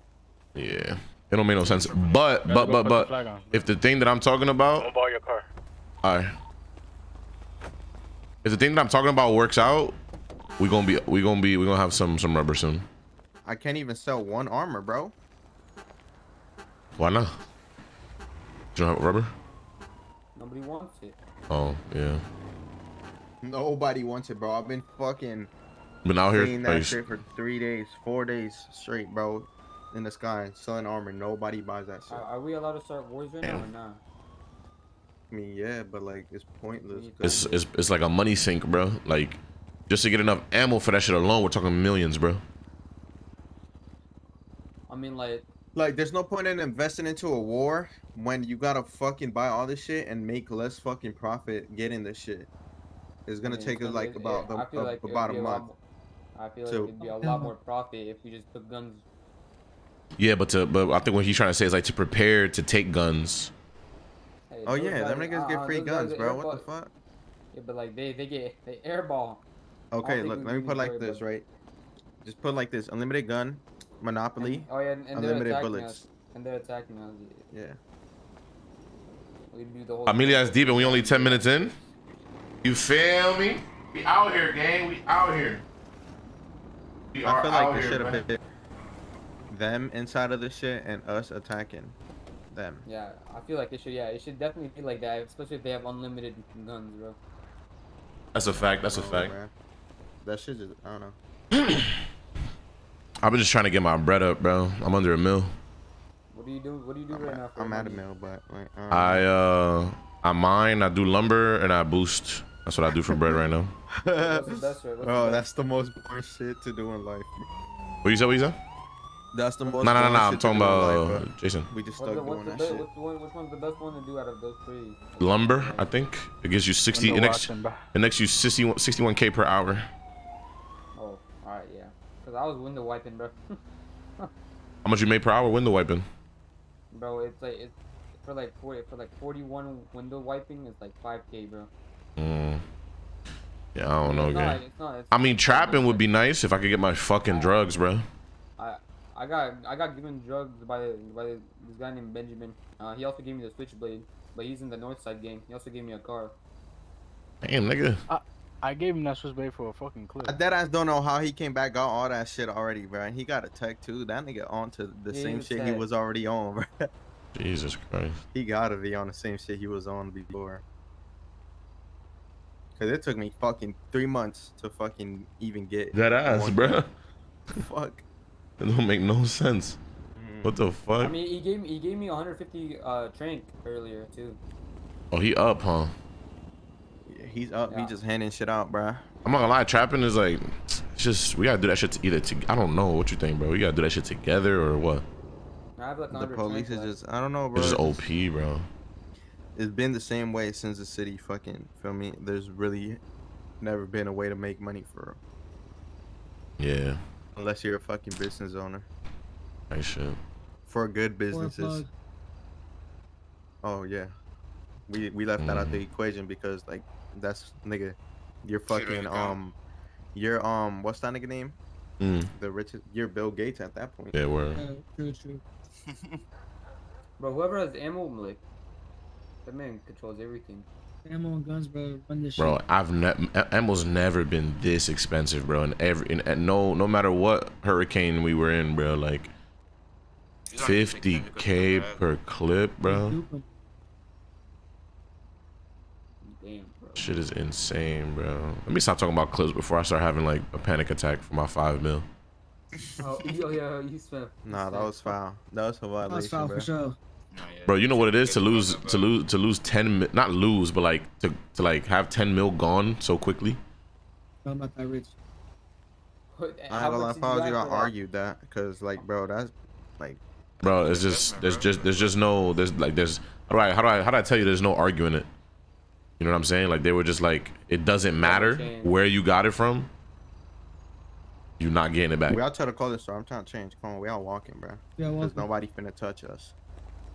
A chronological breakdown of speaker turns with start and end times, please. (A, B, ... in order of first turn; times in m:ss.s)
0:00.5-0:04.9 A
0:02.4-0:03.6 B
0:04.8-0:05.5 B
0:06.0-0:06.4 A
0:08.4-0:10.0 A
0:10.6-0:12.9 A
0:13.4-0:15.1 C
0:17.0-0:17.4 A
0:18.8-0:19.3 A
0:20.4-0:21.2 D
0:21.5-0:22.2 A
0:23.4-0:25.5 C
0:26.0-0:27.0 A
0:26.3-0:32.2 C
0:32.1-0:34.0 D
0:35.3-0:37.6 C
0:36.9-0:37.5 D
0:37.2-0:42.4 A
0:44.9-0:45.4 D
0:45.7-0:52.5 C
0:53.2-0:55.7 C
0:53.4-0:55.8 D
0:56.4-0:59.0 D
0:56.6-0:56.9 C
0:57.0-0:57.5 E
1:00.2-1:03.5 A
1:04.5-1:06.7 D
1:04.7-1:06.9 C
1:07.5-1:09.4 D
1:09.9-1:11.4 C
1:10.0-1:11.3 D
1:12.2-1:16.0 C
1:14.4-1:17.4 D
1:17.5-1:17.8 C
1:19.5-1:21.7 D
1:20.1-1:21.7 A
1:22.6-1:25.6 A
1:27.1-1:28.2 A
1:27.2-1:28.4 C
1:29.5-1:32.0 C
1:32.5-1:32.8 C
1:32.9-1:37.2 D
1:38.3-1:39.3 A
1:38.8-1:39.5 C
1:40.2-1:41.2 C
1:41.5-1:42.0 A
1:43.2-1:45.5 A
1:46.3-1:48.0 D
1:47.1-1:49.3 C
1:48.9-1:53.7 A
1:54.0-1:57.4 C
1:54.1-1:55.4 D
1:58.0-1:58.6 A
1:59.3-2:02.9 C
1:59.8-2:01.7 A
2:02.0-2:05.9 D
2:05.2-2:09.9 A
2:06.9-2:07.8 B
2:10.9-2:13.6 D
2:14.8-2:16.1 A
2:16.9-2:21.7 D
2:22.2-2:22.6 A
2:23.8-2:24.6 A
2:24.0-2:26.1 D
2:25.1-2:28.1 A
2:28.6-2:36.4 D
2:37.4-2:38.0 A
2:38.1-2:40.4 B
2:40.2-2:46.9 C
2:45.1-2:45.9 D
2:47.3-2:48.2 A
2:48.3-2:50.6 C
2:52.8-2:56.8 C
2:55.9-2:56.9 A
2:57.5-2:58.0 C
2:58.6-2:59.8 A
3:00.2-3:00.6 C
3:00.4-3:01.2 A
3:01.0-3:04.4 D
3:05.1-3:05.9 A
3:07.1-3:09.1 C
3:07.7-3:07.9 D
3:09.2-3:15.0 A
3:15.8-3:16.9 D
3:16.1-3:18.0 C
3:17.6-3:18.7 A
3:19.6-3:23.0 C
3:23.6-3:25.2 C
3:26.6-3:27.0 A
3:27.3-3:28.9 C
3:29.7-3:30.2 A
3:30.7-3:31.9 C
3:31.3-3:31.9 E
3:33.6-3:34.1 C
3:34.9-3:39.6 C
3:35.4-3:35.8 A
3:38.7-3:39.4 F
3:40.1-3:41.6 C
3:42.0-3:42.3 A
3:42.3-3:44.2 C
3:44.1-3:44.6 A
3:44.5-3:45.4 E
3:47.2-3:48.4 D
3:49.4-3:50.7 D
3:51.1-3:52.6 E
3:52.4-3:59.3 A
4:00.5-4:02.0 F
4:00.6-4:03.2 A
4:02.8-4:03.4 E
4:06.2-4:07.1 D
4:07.0-4:12.1 A
4:13.0-4:15.2 D
4:14.4-4:16.7 C
4:16.1-4:17.0 E
4:17.3-4:19.1 F
4:17.7-4:23.6 A
4:24.4-4:25.1 E
4:26.3-4:27.9 D
4:26.7-4:30.2 C
4:30.6-4:35.3 A
4:30.6-4:32.1 F
4:36.2-4:39.9 A
4:38.2-4:38.9 D
4:41.6-4:42.4 A
4:42.3-4:46.5 C
4:45.0-4:45.5 E